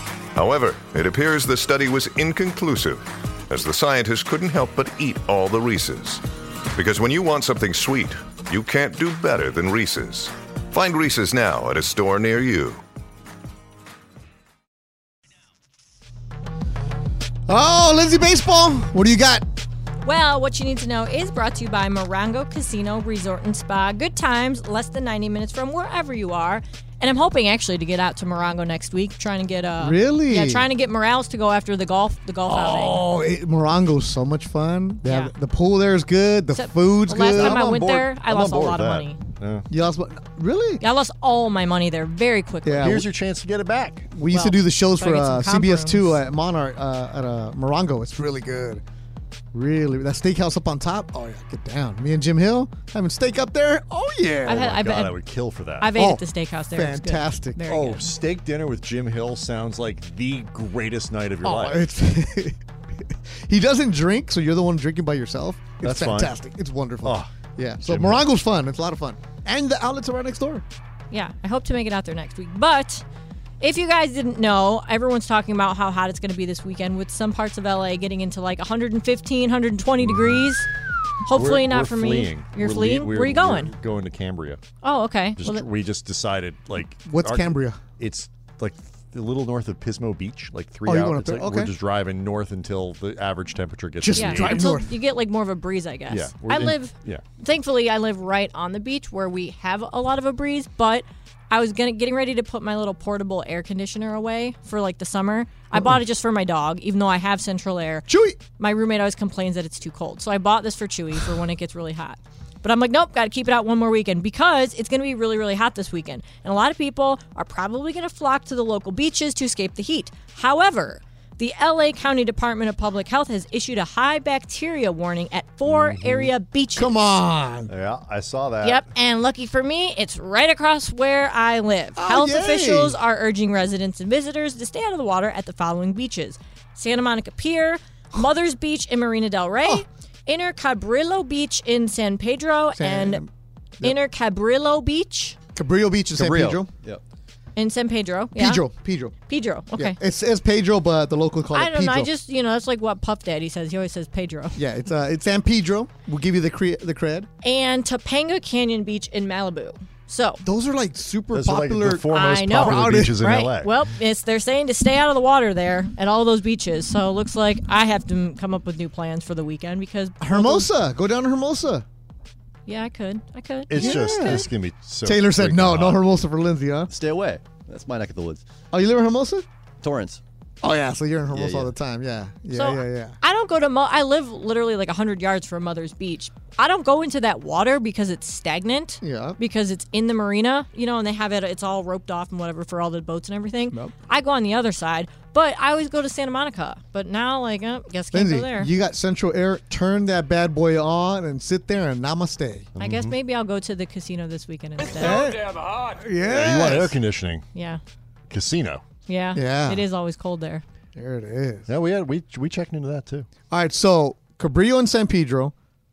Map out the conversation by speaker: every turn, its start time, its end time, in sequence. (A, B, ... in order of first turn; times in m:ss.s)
0:00.3-0:06.2 A
0:06.7-0:12.8 A
0:17.5-0:19.5 B
0:20.0-0:33.0 C
0:29.8-0:30.6 B
0:32.4-0:37.7 B
0:35.0-0:35.3 C
0:36.5-0:39.2 C
0:37.3-0:39.7 D
0:39.7-0:40.8 B
0:40.8-0:43.0 C
0:42.6-0:43.0 B
0:42.8-0:44.1 D
0:44.1-0:48.8 B
0:44.3-0:46.2 C
0:49.5-0:54.7 B
0:54.5-0:55.2 C
0:54.5-0:56.0 D
0:55.8-0:58.1 C
0:55.9-0:57.6 B
0:57.7-1:01.8 D
1:01.4-1:02.6 B
1:03.5-1:10.6 B
1:05.8-1:06.3 D
1:07.0-1:08.2 D
1:11.1-1:13.0 C
1:13.6-1:20.7 C
1:21.3-1:23.7 C
1:21.3-1:24.6 D
1:24.8-1:25.6 C
1:25.4-1:34.7 D
1:27.0-1:27.8 B
1:30.8-1:31.7 B
1:34.0-1:34.9 B
1:34.2-1:48.1 C
1:36.1-1:37.2 D
1:45.7-1:46.0 B
1:48.1-1:48.4 B
1:48.6-2:06.9 C
2:05.7-2:06.3 D
2:06.8-2:07.7 B
2:07.7-2:08.8 D
2:08.6-2:23.2 C
2:12.0-2:13.0 B
2:22.8-2:23.3 B
2:23.8-2:25.4 C
2:25.6-2:26.7 B
2:26.2-2:27.0 E
2:27.6-2:28.6 C
2:28.3-2:29.2 B
2:29.3-2:30.0 C
2:29.7-2:32.1 B
2:31.5-2:34.6 C
2:34.6-2:37.3 B
2:37.4-2:40.4 C
2:40.4-2:43.2 B
2:41.3-2:43.8 D
2:42.1-2:50.7 C
2:50.2-2:51.8 B
2:52.7-2:54.2 C
2:53.7-2:56.0 D
2:53.8-2:54.5 B
2:55.0-2:56.9 B
2:56.9-2:58.4 E
2:58.7-2:59.5 B
2:59.8-3:00.2 E
3:00.6-3:03.2 B
3:01.3-3:01.7 E
3:02.5-3:18.7 C
3:09.0-3:09.4 B
3:18.1-3:22.7 B
3:22.8-3:23.2 D
3:22.8-3:25.3 C
3:25.0-3:27.0 B
3:26.2-3:27.5 D
3:27.5-3:27.8 C
3:28.3-3:28.8 D
3:29.1-3:30.6 C
3:29.4-3:29.8 B
3:31.0-3:31.7 B
3:31.7-3:33.3 D
3:33.5-3:35.5 B